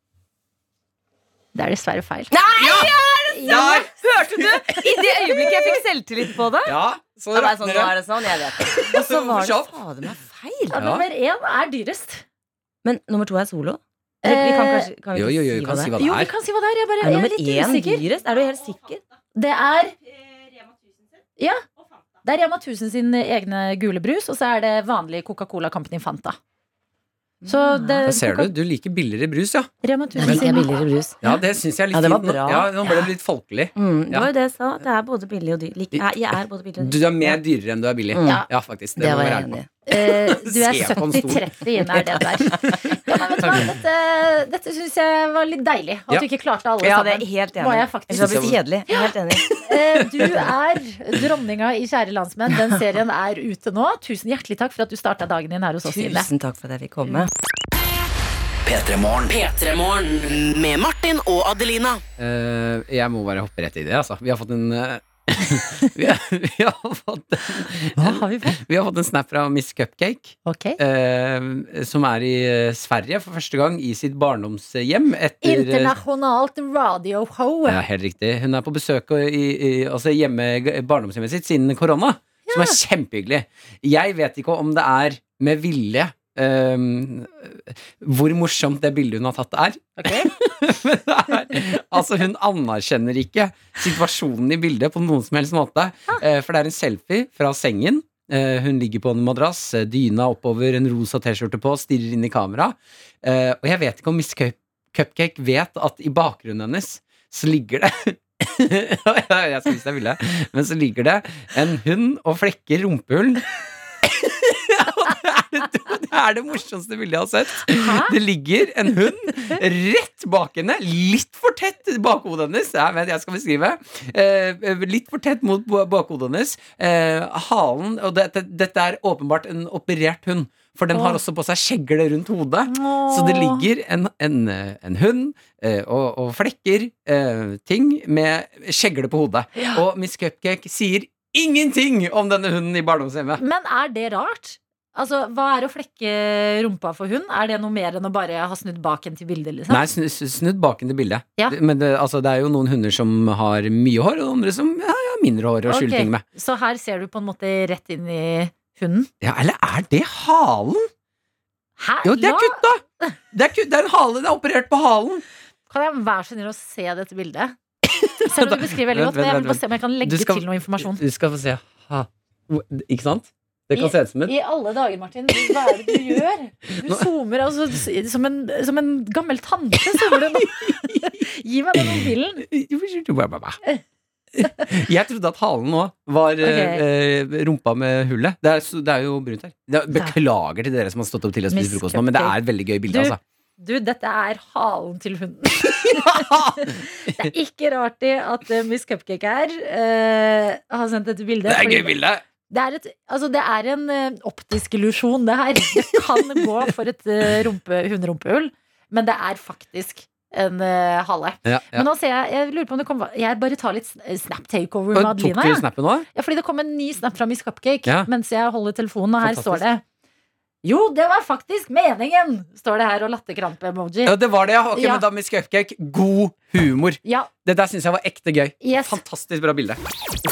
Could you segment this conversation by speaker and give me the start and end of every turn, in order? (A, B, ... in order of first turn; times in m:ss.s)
0:01.6-0:02.3 A
0:02.3-0:06.8 B
0:02.6-0:02.9 C
0:03.3-0:03.9 A
0:03.5-0:03.9 C
0:06.6-0:08.0 C
0:07.3-0:10.8 B
0:08.6-0:09.7 C
0:10.7-0:12.2 A
0:10.8-0:11.0 C
0:12.8-0:16.0 B
0:14.2-0:14.9 A
0:15.2-0:16.3 C
0:16.0-0:18.0 A
0:17.0-0:19.0 B
0:19.4-0:20.0 A
0:22.2-0:26.4 A
0:27.4-0:28.1 B
0:27.5-0:28.5 A
0:28.0-0:29.7 C
0:29.8-0:30.8 A
0:30.2-0:31.3 B
0:31.2-0:34.3 C
0:31.9-0:33.1 B
0:33.8-0:37.4 B
0:36.8-0:41.5 C
0:38.1-0:38.4 B
0:39.0-0:39.7 B
0:39.9-0:56.3 A
0:43.4-0:43.7 C
0:46.8-0:49.5 B
0:48.2-0:48.5 C
0:55.8-0:57.3 B
0:58.6-1:02.0 D
1:02.2-1:16.0 C
1:08.0-1:08.6 A
1:10.5-1:10.8 A
1:15.4-1:17.8 A
1:17.7-1:53.5 C
1:22.5-1:22.8 A
1:30.0-1:30.3 A
1:54.0-2:23.4 C
1:57.7-1:58.2 A
2:10.9-2:11.2 A
2:12.7-2:13.7 A
2:23.4-2:29.8 A
2:29.7-2:36.2 C
2:35.7-2:39.1 A
2:39.2-2:40.9 C
2:41.8-2:43.1 A
2:42.0-2:45.2 C
2:45.7-2:47.6 A
2:48.0-2:54.3 C
2:48.2-2:51.0 A
2:53.7-3:02.4 A
2:55.4-2:56.2 C
2:56.7-2:57.1 C
2:59.9-3:01.2 C
3:01.8-3:03.6 C
3:04.4-3:13.2 C
3:06.4-3:06.8 A
3:11.5-3:12.4 A
3:12.9-3:22.0 A
3:15.6-3:17.3 C
3:21.5-3:22.2 C
3:22.5-3:39.8 A
3:25.9-3:26.6 C
3:31.4-3:31.9 C
3:34.9-3:36.1 C
3:39.2-3:39.6 C
3:40.6-3:44.2 A
3:44.0-3:49.8 C
3:44.7-3:45.0 A
3:47.0-3:47.3 A
3:48.6-3:49.0 A